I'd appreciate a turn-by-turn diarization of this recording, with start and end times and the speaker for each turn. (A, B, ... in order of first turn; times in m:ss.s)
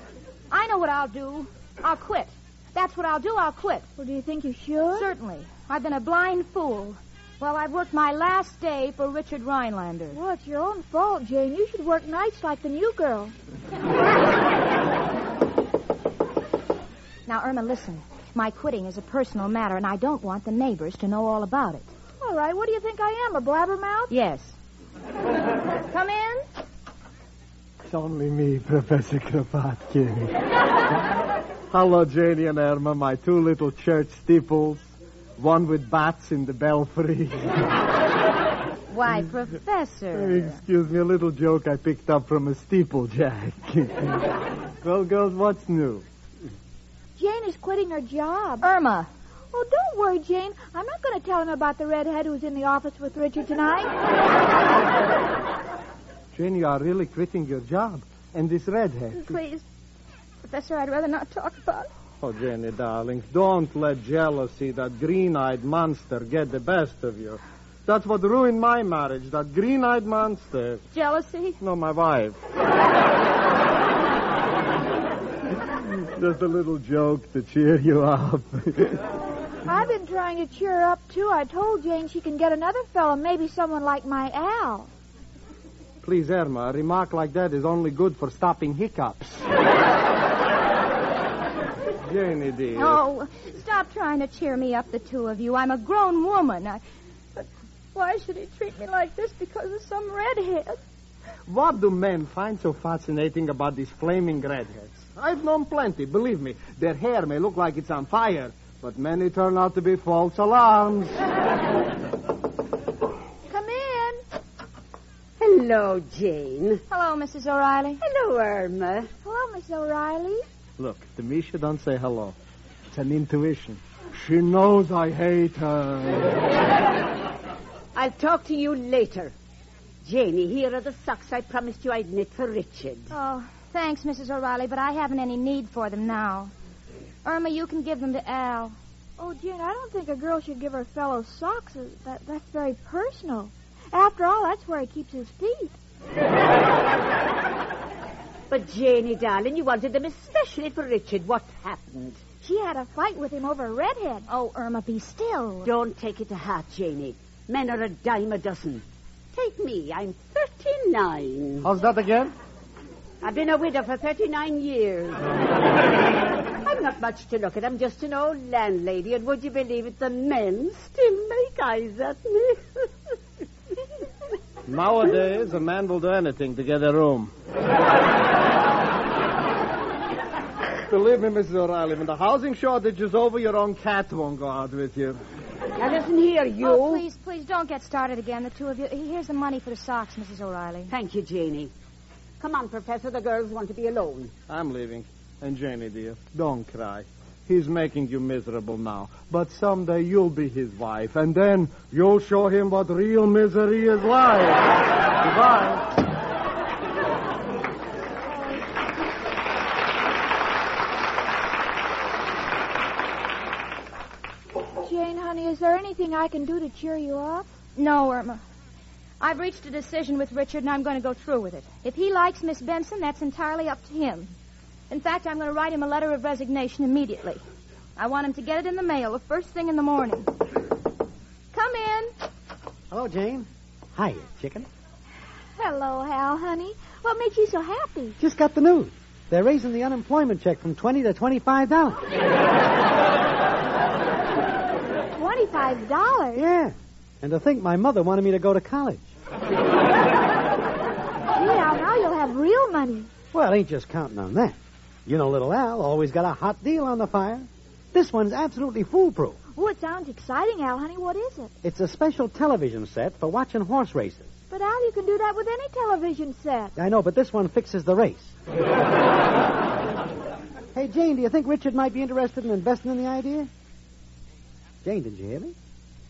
0:00.5-0:03.9 A
0:04.0-0:05.1 B
0:04.9-0:10.2 A
0:10.1-0:13.3 B
0:17.3-0:21.9 A
0:22.2-0:24.1 B
0:24.1-0:24.6 A
0:25.9-0:26.4 A
0:27.9-0:30.4 C
0:31.7-0:37.6 C
0:38.9-0:40.6 A
0:40.1-0:46.0 C
0:47.2-0:48.6 B
0:48.6-0:49.1 A
0:49.5-0:54.0 B
0:56.3-0:59.4 C
0:59.1-0:59.6 A
1:00.4-1:01.9 A
1:02.2-1:10.8 C
1:10.9-1:11.6 A
1:11.6-1:12.4 C
1:16.0-1:19.0 C
1:19.7-1:24.9 B
1:26.0-1:29.4 C
1:32.0-1:33.0 C
1:32.7-1:36.8 A
1:37.4-1:40.8 A
1:41.5-1:51.2 C
1:53.5-1:54.2 B
1:55.4-1:56.8 D
1:56.9-1:58.0 A
1:58.0-1:59.1 D
1:59.2-2:00.4 B
2:00.8-2:02.3 C
2:02.9-2:06.3 C
2:07.9-2:09.3 D
2:10.0-2:13.1 D
2:13.1-2:16.5 A
2:17.2-2:18.8 A
2:19.2-2:25.7 B
2:28.5-2:32.2 D
2:32.4-2:34.2 B
2:34.3-2:35.7 A
2:35.6-2:41.7 D
2:41.6-2:42.3 C
2:43.2-2:45.2 D
2:46.6-2:52.8 D
2:54.7-2:57.3 C
3:00.9-3:05.2 C
3:05.8-3:07.0 D
3:06.6-3:10.9 A
3:10.9-3:11.7 D
3:12.4-3:14.3 D
3:14.5-3:25.9 C
3:28.3-3:28.6 B
3:34.8-3:37.5 B
3:37.8-3:38.4 A
3:39.2-3:44.3 A
3:44.9-3:47.4 A
3:48.0-3:50.3 A
3:51.5-3:52.1 A
3:52.9-3:54.7 E
3:55.6-3:58.2 B
3:58.2-4:02.1 E
4:05.2-4:06.4 B
4:06.3-4:09.1 E
4:11.3-4:13.1 B
4:13.3-4:19.4 E
4:19.6-4:21.5 B
4:21.6-4:24.3 E
4:24.5-4:26.7 B
4:26.8-4:28.3 E
4:30.7-4:33.5 E
4:34.8-4:35.5 E